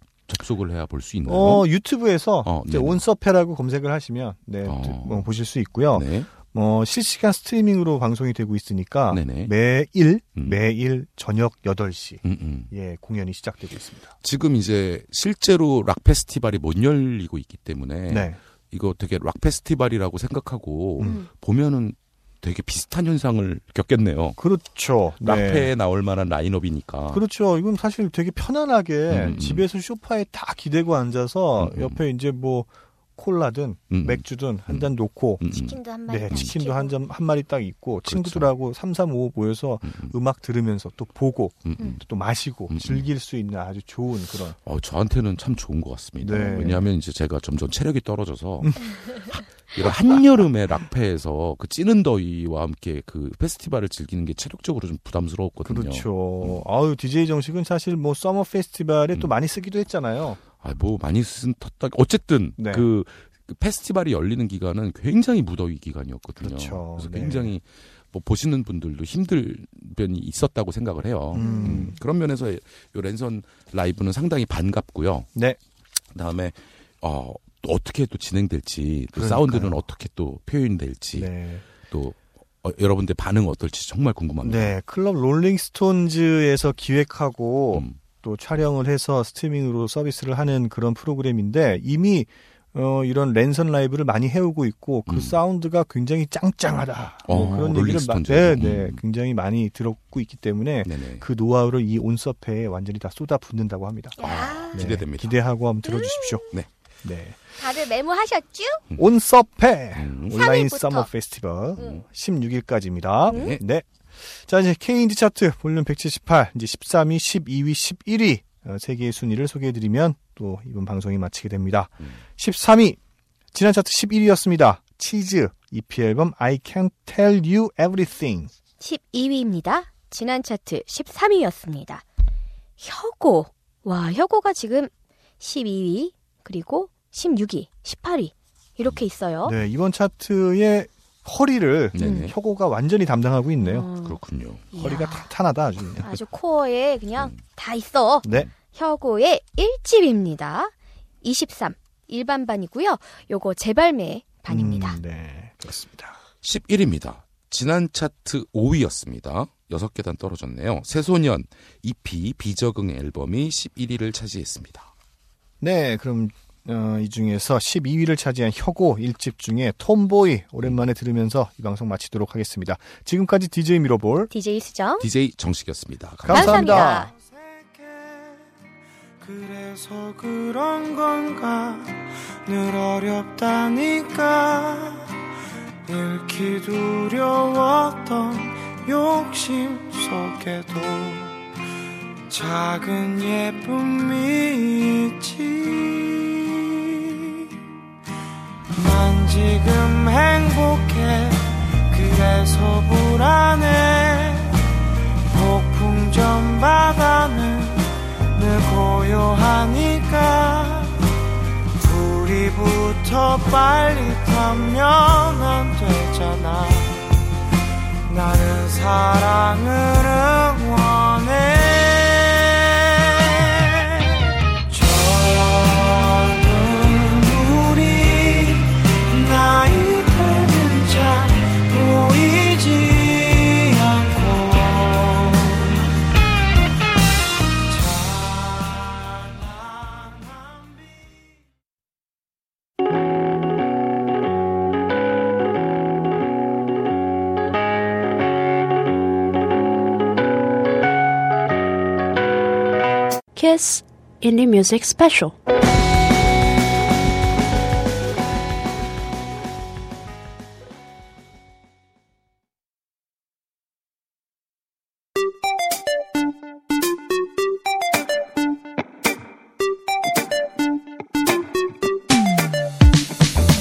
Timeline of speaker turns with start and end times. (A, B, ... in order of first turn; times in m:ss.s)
0:00.3-0:01.7 A
0:01.3-0:14.1 B
0:02.4-0:03.0 A
0:04.6-0:05.3 A
0:05.9-0:06.3 A
0:09.1-0:09.5 A
0:12.2-0:12.7 A
0:14.2-0:24.4 A
0:18.1-0:18.4 B
0:21.0-0:21.2 B
0:21.0-0:21.3 C
0:24.4-0:25.7 B
0:25.2-0:27.2 A
0:27.1-0:35.4 B
0:29.1-0:29.6 A
0:31.6-0:32.0 A
0:33.9-0:34.9 A
0:35.4-0:35.8 A
0:35.5-0:36.9 C
0:36.1-0:44.6 B
0:38.1-0:38.5 A
0:39.9-0:40.1 A
0:41.6-0:42.0 A
0:42.7-0:43.1 A
0:44.6-0:56.6 A
0:46.2-0:46.8 B
0:46.3-0:46.7 C
0:55.6-1:00.4 B
1:00.6-1:15.3 A
1:02.6-1:02.9 B
1:06.4-1:07.5 B
1:11.3-1:12.0 B
1:11.4-1:11.9 C
1:16.1-1:21.3 A
1:19.1-1:19.8 B
1:21.2-1:21.6 B
1:21.8-1:24.7 A
1:24.4-1:44.2 B
1:35.1-1:35.4 A
1:37.3-1:39.0 A
1:37.3-1:37.6 C
1:40.8-1:41.2 A
1:44.2-1:44.8 C
1:44.2-1:45.4 A
1:44.7-1:46.5 B
1:45.9-1:46.4 C
1:47.0-1:47.4 B
1:47.6-1:48.8 C
1:49.0-1:53.9 B
1:50.0-1:50.4 A
1:50.3-1:51.1 C
1:51.8-1:52.0 A
1:53.3-1:53.6 A
1:54.4-2:03.0 B
2:03.5-2:08.5 B
2:08.8-2:12.0 C
2:12.8-2:19.6 C
2:19.4-2:23.9 B
2:21.9-2:22.4 A
2:22.0-2:22.3 C
2:23.6-2:24.2 C
2:24.0-2:24.7 A
2:24.7-2:25.3 C
2:24.7-2:26.2 B
2:26.0-2:35.0 C
2:34.5-2:36.2 B
2:36.4-2:44.9 A
2:45.6-2:54.3 B
2:54.3-2:55.1 C
2:55.0-2:56.9 A
2:56.2-2:57.1 B
2:56.3-2:57.1 C
2:57.1-2:58.4 D
2:59.2-3:05.0 D
3:05.8-3:11.4 D
3:12.3-3:17.5 D
3:18.7-3:24.6 D
3:25.2-3:31.0 D
3:31.8-3:37.0 D
3:38.1-3:55.9 D
3:57.7-4:01.3 D
4:13.4-4:15.4 E